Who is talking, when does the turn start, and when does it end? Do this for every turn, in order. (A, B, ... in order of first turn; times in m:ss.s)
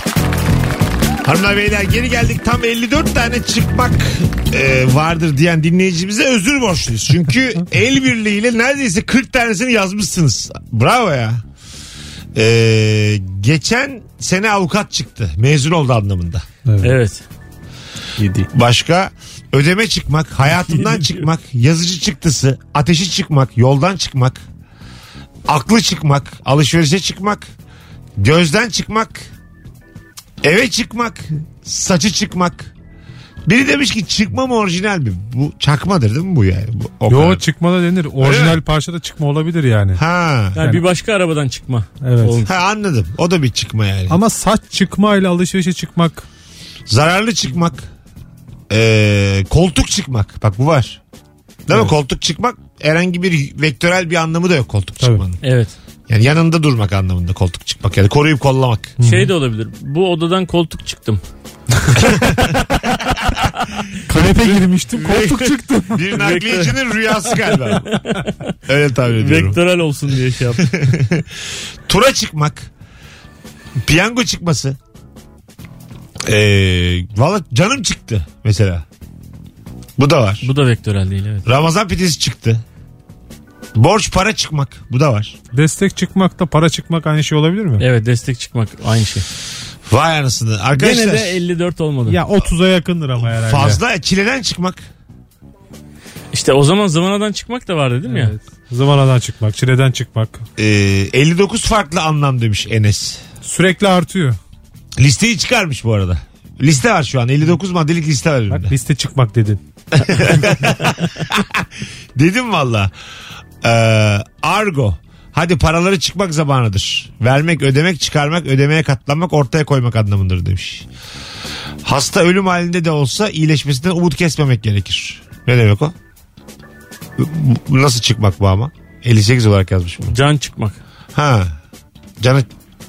0:01.2-0:11.4 A
0:12.3-0:16.4 A
0:16.7-0:17.0 B
0:16.8-0:17.2 C
0:18.2-0:18.5 B
0:18.5-0:24.4 A
0:25.5-0:27.5 A
0:28.2-0:29.3 A
0:30.4-0:32.7 A
0:33.4-0:37.4 A
0:37.1-0:40.0 B
0:38.2-0:38.6 A
0:40.0-0:40.6 A
0:40.6-0:42.5 C
0:42.0-0:42.4 B
0:42.4-0:44.2 A
0:44.1-0:46.2 B
0:46.9-0:47.8 A
0:48.7-0:51.0 A
0:51.7-0:55.4 A
0:55.4-0:55.7 C
0:56.1-0:58.9 A
0:59.0-0:59.3 B
0:59.0-1:01.2 C
1:02.0-1:02.6 A
1:04.1-1:06.0 B
1:05.0-1:05.4 C
1:05.9-1:08.0 A
1:06.0-1:08.3 C
1:08.7-1:09.6 A
1:09.2-1:10.7 C
1:10.7-1:11.3 A
1:11.9-1:12.7 A
1:13.8-1:14.8 A
1:16.2-1:18.8 A
1:20.0-1:20.4 A
1:20.4-1:21.4 C
1:21.4-1:22.6 A
1:23.7-1:25.4 A
1:25.5-1:27.8 B
1:27.8-1:29.2 C
1:29.9-1:31.4 A
1:30.8-1:32.2 C
1:32.0-1:33.8 B
1:33.2-1:34.8 A
1:36.3-1:38.3 C
1:38.1-1:40.4 B
1:40.6-1:43.2 A
1:43.4-1:44.4 B
1:45.0-1:48.7 A
1:48.5-1:49.6 B
1:50.0-1:52.9 A
1:53.6-2:00.9 A
2:01.8-2:05.9 A
2:07.2-2:10.2 A
2:10.1-2:10.8 C
2:11.1-2:11.6 A
2:12.2-2:12.5 A